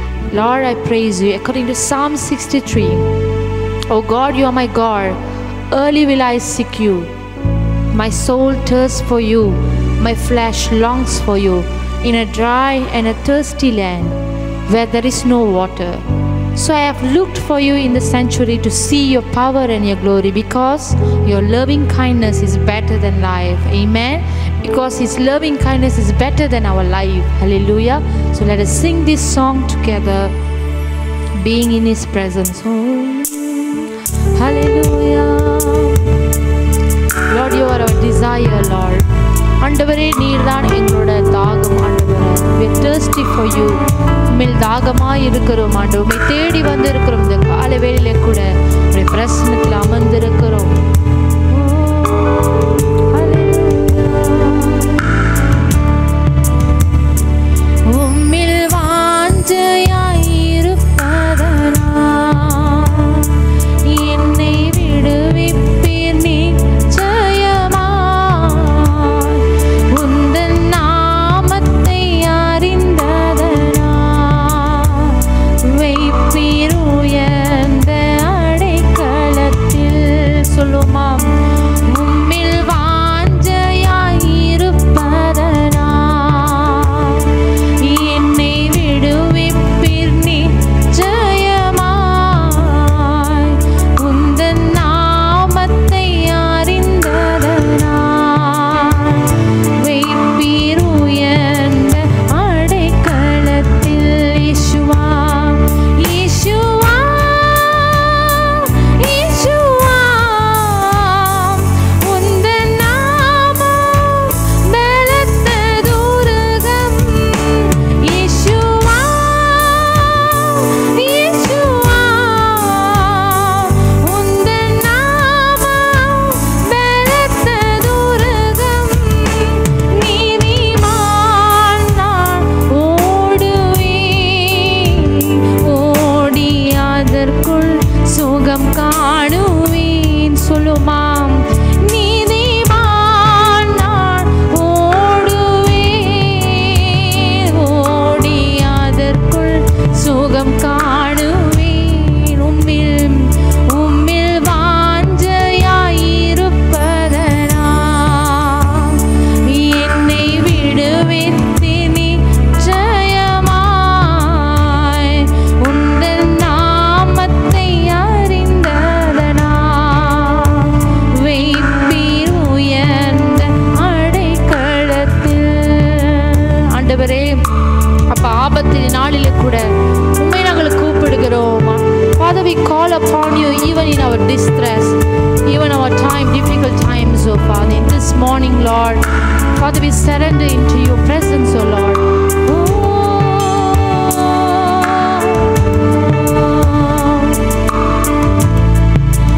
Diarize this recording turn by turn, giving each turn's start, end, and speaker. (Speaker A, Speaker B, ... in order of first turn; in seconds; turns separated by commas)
Speaker A: 0.3-3.1, Speaker A: 3.9-5.2, Speaker A: 5.7-7.1, Speaker A: 7.9-30.3, Speaker A: 31.4-36.2, Speaker A: 37.3-39.0, Speaker A: 39.6-50.8, Speaker A: 51.5-55.2, Speaker A: 57.8-177.4, Speaker A: 178.1-189.0, Speaker A: 189.5-197.5